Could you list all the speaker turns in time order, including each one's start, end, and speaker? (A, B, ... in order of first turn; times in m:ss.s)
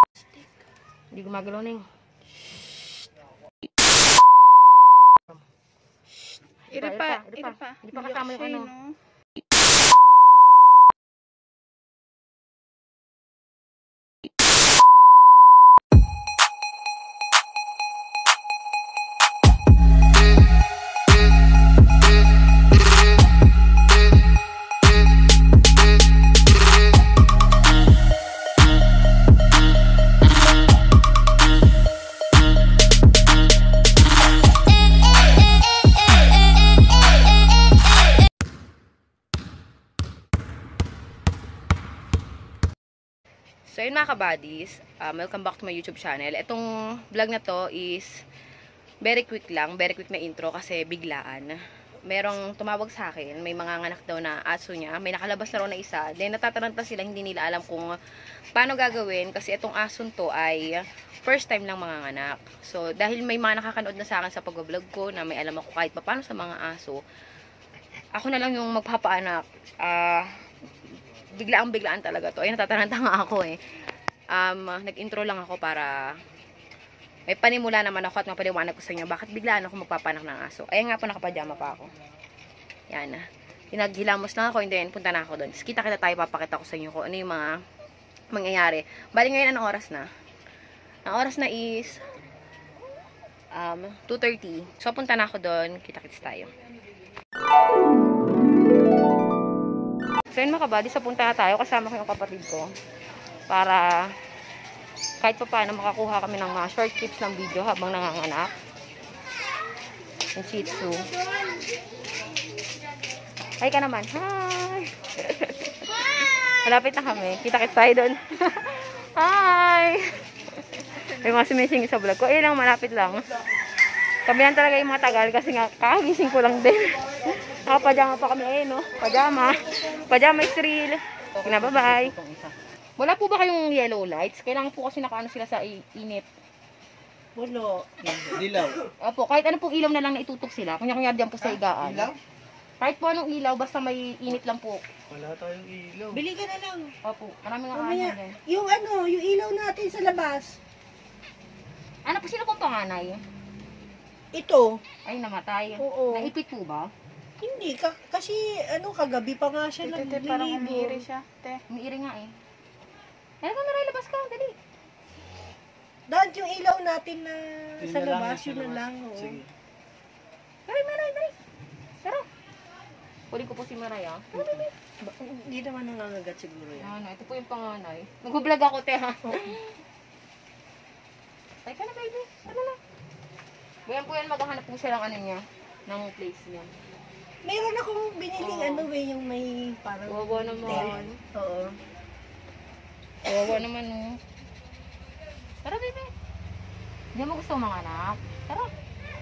0:01.1-0:01.8 A
0:06.7-0:08.7 A
0:06.7-0:09.0 B
0:43.7-0:48.1 A
0:49.0-0:58.0 A
0:58.6-1:07.0 A
1:08.1-1:10.5 A
1:11.3-1:13.6 A
1:14.3-1:16.2 A
1:17.3-1:21.9 A
1:22.9-1:27.6 A
1:28.3-1:30.1 A
1:31.1-1:32.0 A
1:33.5-1:36.5 A
1:40.3-1:42.7 A
1:43.5-1:44.1 A
1:45.2-1:48.6 A
1:50.4-1:51.1 A
1:50.7-1:51.7 C
1:53.6-2:03.3 A
2:04.2-2:16.3 A
2:09.0-2:10.2 C
2:11.5-2:12.1 C
2:17.4-2:18.5 C
2:18.0-2:18.9 D
2:19.0-2:22.1 A
2:21.8-2:22.2 D
2:22.8-2:24.8 A
2:25.1-2:26.2 D
2:26.1-2:27.0 C
2:27.0-2:28.4 A
2:27.7-2:30.6 C
2:32.0-2:33.2 A
2:34.3-2:34.8 C
2:35.0-2:36.9 A
2:35.8-2:36.3 C
2:37.4-2:41.0 C
2:39.8-2:41.6 B
2:41.7-2:42.3 A
2:43.4-2:44.6 A
2:46.1-2:49.4 C
2:47.8-2:49.5 D
2:50.7-2:51.4 A
2:53.3-2:54.7 A
2:54.4-2:56.9 C
2:56.8-2:59.6 A
3:01.6-3:02.8 A
3:03.9-3:06.7 A
3:07.4-3:11.8 C
3:08.4-3:08.9 A
3:10.1-3:11.2 A
3:13.2-3:14.2 A
3:15.6-3:16.1 A
3:17.1-3:18.7 A